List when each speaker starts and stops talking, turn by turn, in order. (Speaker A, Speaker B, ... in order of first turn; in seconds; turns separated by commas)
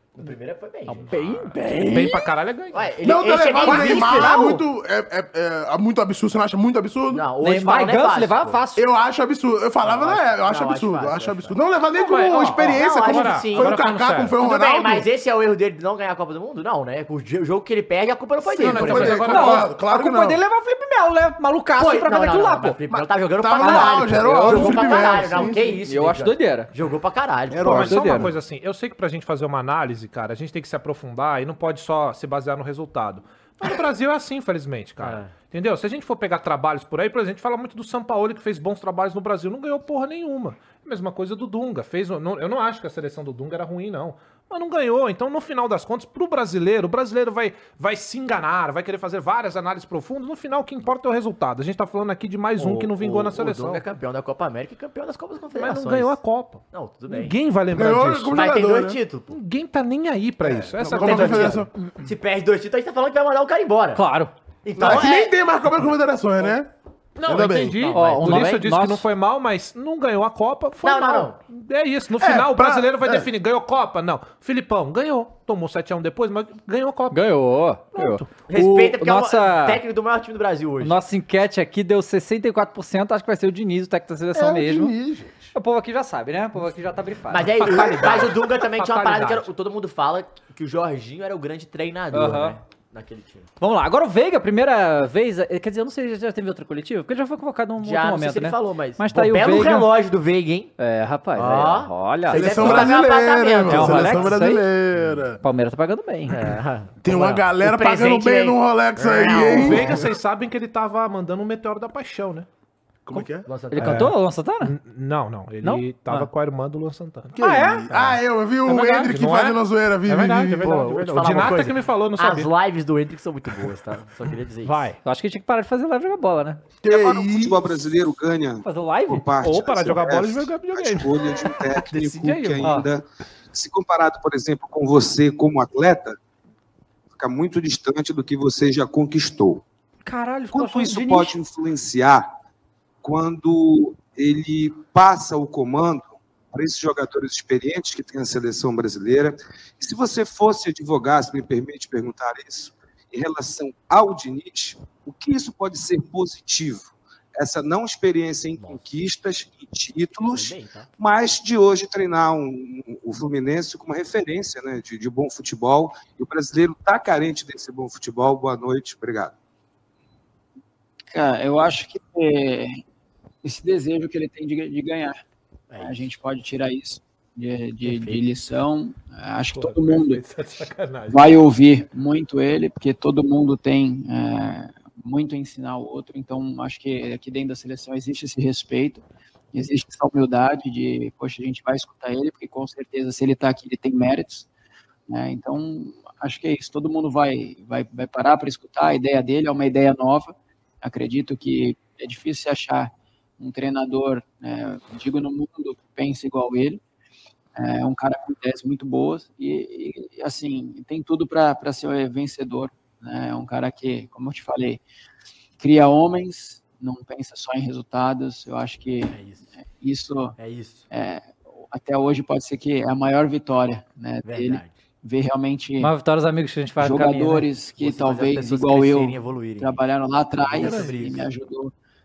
Speaker A: 0.1-1.1, Speaker B: 0.9-2.3, Speaker C: 1.1-2.9, Speaker A: 2.7-4.6, Speaker D: 3.0-7.3, Speaker B: 3.6-4.6, Speaker A: 7.1-8.6, Speaker B: 7.4-8.8, Speaker D: 8.8-15.1, Speaker A: 9.8-11.6, Speaker C: 12.0-14.4, Speaker A: 12.5-13.8, Speaker A: 14.4-19.2, Speaker C: 18.5-19.7, Speaker D: 18.6-20.4, Speaker B: 19.0-22.8, Speaker A: 21.8-27.8, Speaker D: 22.9-25.8, Speaker B: 23.6-25.1, Speaker B: 25.9-26.7, Speaker D: 27.5-28.3, Speaker C: 27.6-53.8, Speaker B: 27.6-28.3, Speaker A: 35.0-35.3, Speaker A: 52.6-56.2, Speaker C: 55.5-58.3, Speaker A: 56.7-57.4, Speaker D: 57.7-59.0, Speaker A: 58.3-59.3, Speaker C: 59.3-61.7, Speaker D: 60.4-61.7, Speaker A: 60.8-64.0, Speaker B: 63.9-64.3, Speaker A: 64.6-65.3, Speaker D: 64.8-66.7, Speaker C: 67.2-77.2, Speaker D: 67.2-67.9, Speaker A: 67.7-68.6, Speaker B: 67.9-69.0, Speaker A: 70.8-71.4, Speaker D: 72.2-73.3, Speaker B: 77.1-79.8, Speaker A: 78.0-81.0, Speaker B: 80.8-85.0, Speaker D: 84.3-85.5, Speaker B: 85.5-87.8, Speaker A: 87.3-93.5, Speaker C: 87.6-89.5, Speaker B: 92.1-92.6, Speaker B: 93.6-99.9, Speaker A: 97.8-100.7, Speaker B: 100.8-102.9, Speaker A: 101.4-104.4, Speaker D: 102.3-105.4, Speaker B: 103.7-104.7, Speaker B: 105.4-106.5, Speaker A: 106.3-110.1, Speaker D: 107.0-110.1, Speaker C: 109.5-112.5, Speaker D: 113.1-113.5, Speaker B: 113.1-114.8, Speaker A: 113.5-114.1, Speaker C: 113.8-117.4, Speaker B: 115.6-116.3, Speaker D: 117.4-120.8, Speaker B: 117.4-117.9, Speaker C: 117.9-122.5, Speaker A: 120.6-124.8, Speaker C: 124.6-125.0, Speaker B: 125.0-126.6, Speaker D: 126.8-127.8, Speaker E: 126.8-136.2, Speaker B: 128.6-129.2, Speaker C: 129.4-132.7, Speaker B: 132.6-132.9, Speaker E: 137.1-139.6, Speaker B: 140.1-141.3, Speaker E: 140.5-142.3, Speaker E: 143.0-169.3, Speaker A: 158.6-158.8, Speaker A: 160.3-160.9, Speaker F: 171.1-172.8, Speaker F: 173.4-175.2, Speaker A: 175.7-176.1, Speaker F: 175.8-180.2, Speaker A: 177.8-178.2, Speaker C: 179.5-181.4, Speaker F: 181.1-194.5, Speaker F: 195.1-206.8, Speaker F: 207.6-214.8, Speaker F: 215.6-220.3, Speaker A: 219.1-219.5, Speaker A: 220.4-220.9, Speaker F: 220.9-225.9, Speaker A: 224.2-224.8, Speaker B: 225.8-227.5, Speaker F: 226.8-231.7, Speaker A: 227.8-229.8, Speaker A: 230.4-231.3